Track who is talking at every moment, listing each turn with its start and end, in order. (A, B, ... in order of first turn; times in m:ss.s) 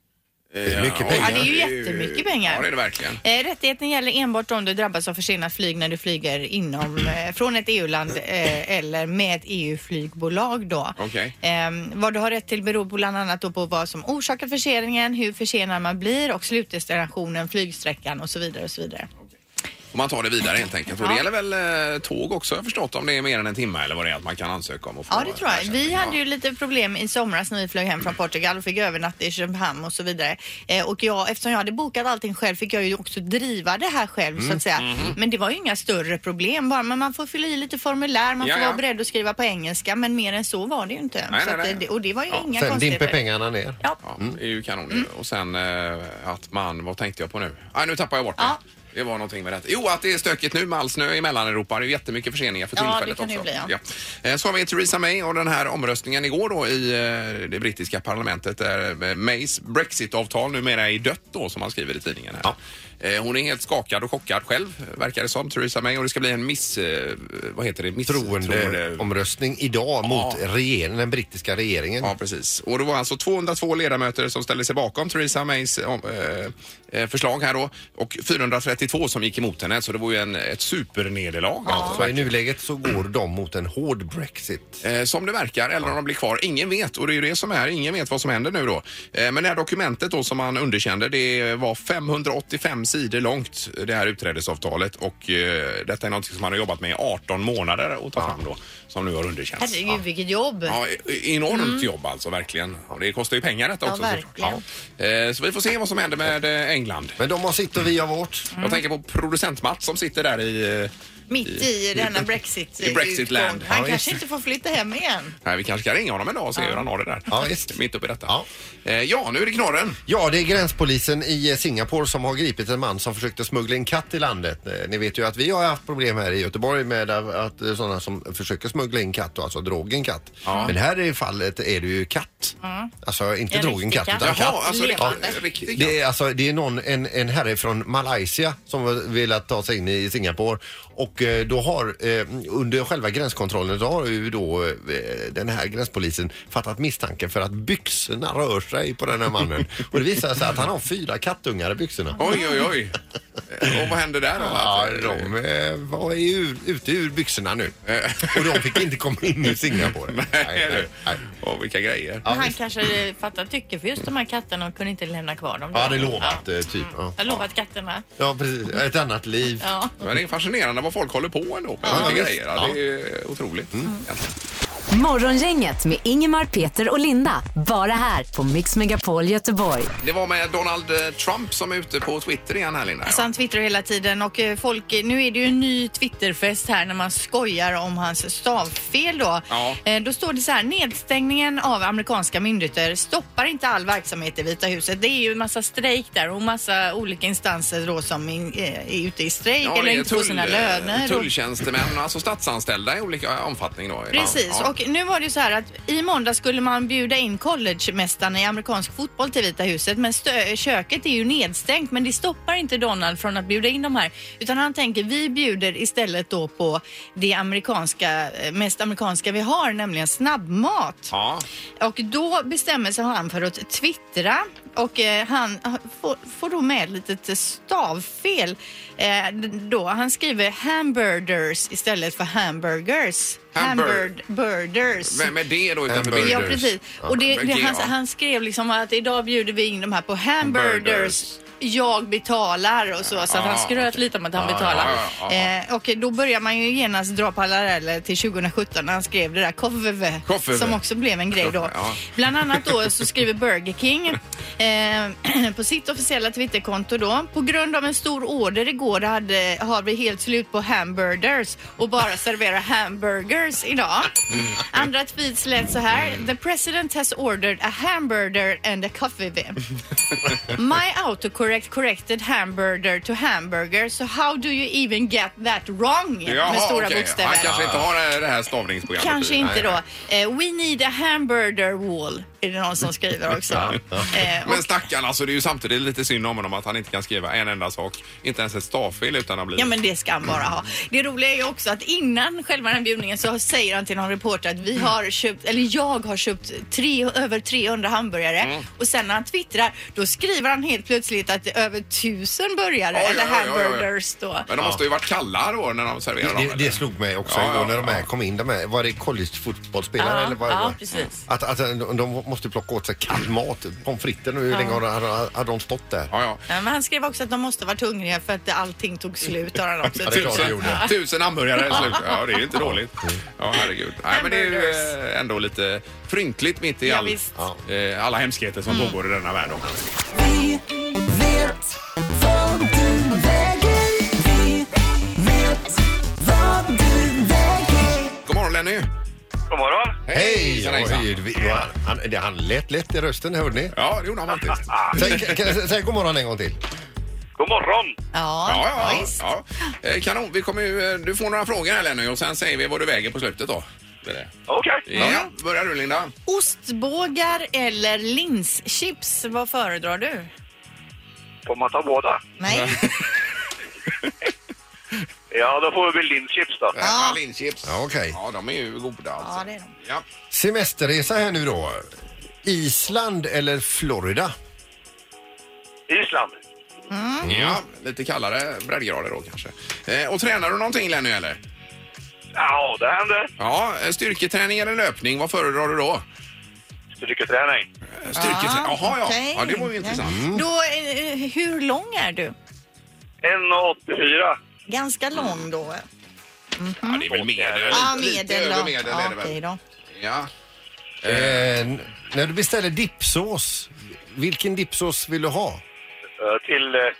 0:00.5-0:03.2 A
0:00.6-0:01.5 B
0:01.2-0:02.7 C
0:03.2-0:19.1 C
0:11.0-0:11.3 A
0:19.9-0:26.2 A
0:21.0-0:21.2 C
0:25.1-0:43.2 C
0:34.8-0:35.2 A
0:38.4-0:38.8 A
0:41.3-0:42.4 A
0:42.5-0:44.4 B
0:44.0-1:09.0 A
0:52.8-0:53.7 C
1:08.0-1:12.1 B
1:10.0-1:10.4 A
1:12.0-1:22.3 A
1:21.6-1:22.0 C
1:21.6-1:24.8 B
1:24.8-1:40.0 A
1:39.6-1:40.8 C
1:40.7-1:47.2 A
1:41.5-1:41.9 C
1:43.8-1:44.6 C
1:47.2-1:48.5 B
1:48.6-1:48.8 C
1:48.6-1:50.9 A
1:51.3-1:55.3 C
1:51.4-1:52.2 A
1:52.8-1:53.7 A
1:53.7-1:54.2 B
1:55.4-2:00.0 A
1:56.6-1:56.8 C
1:57.3-1:57.8 B
2:00.1-2:32.2 B
2:10.4-2:10.7 A
2:12.6-2:12.9 C
2:13.5-2:15.4 C
2:14.2-2:16.0 A
2:32.2-2:32.7 C
2:32.2-2:33.0 A
2:33.5-2:35.3 A
2:34.4-2:41.2 B
2:37.9-2:38.8 A
2:40.1-2:42.3 A
2:42.2-2:42.5 B
2:42.3-2:46.4 C
2:45.7-2:47.4 B
2:47.2-2:48.0 C
2:48.2-2:49.7 B
2:49.6-2:49.9 C
2:50.0-2:54.2 A
2:51.8-2:52.8 B
2:51.8-2:52.3 C
2:54.9-2:59.9 D
3:00.0-3:03.3 A
3:03.0-3:21.3 C
3:09.5-3:09.8 A
3:19.6-3:24.7 A
3:24.1-3:41.1 C
3:41.1-3:41.4 A
3:41.8-3:55.3 C
3:53.5-3:54.1 A
3:55.0-3:57.9 A
3:55.9-3:57.2 B
3:55.9-4:29.6 C
4:00.4-4:01.2 A
4:03.3-4:05.5 A
4:04.4-4:05.0 B
4:10.3-4:10.8 A
4:11.4-4:12.0 A
4:30.4-4:37.7 C
4:36.2-4:39.5 A
4:37.5-4:37.8 B
4:39.0-4:44.7 C
4:39.4-4:39.8 B
4:43.5-4:44.1 B
4:44.4-4:49.7 A
4:49.6-5:04.4 C
5:02.9-5:03.9 A
5:04.5-5:08.0 A
5:06.2-5:16.1 B
5:10.0-5:11.2 C
5:14.5-5:14.8 C
5:16.1-5:16.4 A
5:16.5-5:20.9 C
5:19.9-5:29.7 A
5:20.0-5:20.9 B
5:21.7-5:22.0 C
5:22.6-5:23.2 B
5:24.1-5:24.9 C
5:26.8-5:27.3 C
5:28.7-5:29.0 C
5:30.2-5:31.6 E
5:32.2-5:35.7 E
5:36.2-5:38.1 E
5:38.2-5:38.9 A
5:39.5-5:40.0 F
5:40.1-5:41.2 A
5:40.1-5:43.7 B
5:43.7-5:45.3 A
5:44.9-5:46.6 B
5:47.4-5:47.9 F
5:48.1-5:49.2 C
5:48.4-5:54.3 A
5:54.5-5:54.8 F
5:54.9-5:56.1 A
5:54.9-5:55.3 C
5:56.3-6:00.3 C
6:01.4-6:02.2 F
6:02.4-6:02.9 C
6:02.5-6:02.9 A
6:05.3-6:06.8 F
6:06.8-6:10.0 A
6:06.8-6:07.2 C
6:07.6-6:08.2 B
6:09.2-6:09.7 C
6:10.3-6:11.9 B
6:12.4-6:14.3 B
6:15.9-6:16.4 F
6:16.9-6:17.3 C
6:17.2-6:17.6 B
6:17.2-6:21.4 A
6:22.4-6:23.3 F
6:23.4-6:26.0 A
6:27.0-6:27.7 F
6:28.0-6:30.2 A
6:28.1-6:32.3 C
6:30.0-6:30.4 B
6:33.2-6:34.4 F
6:34.7-6:35.8 C
6:35.1-6:35.4 A
6:36.6-6:37.1 C
6:36.8-6:39.4 A
6:37.1-6:37.9 F
6:37.7-6:39.6 C
6:40.0-6:40.3 A
6:41.0-6:41.5 A
6:41.0-6:45.6 B
6:46.2-6:46.9 F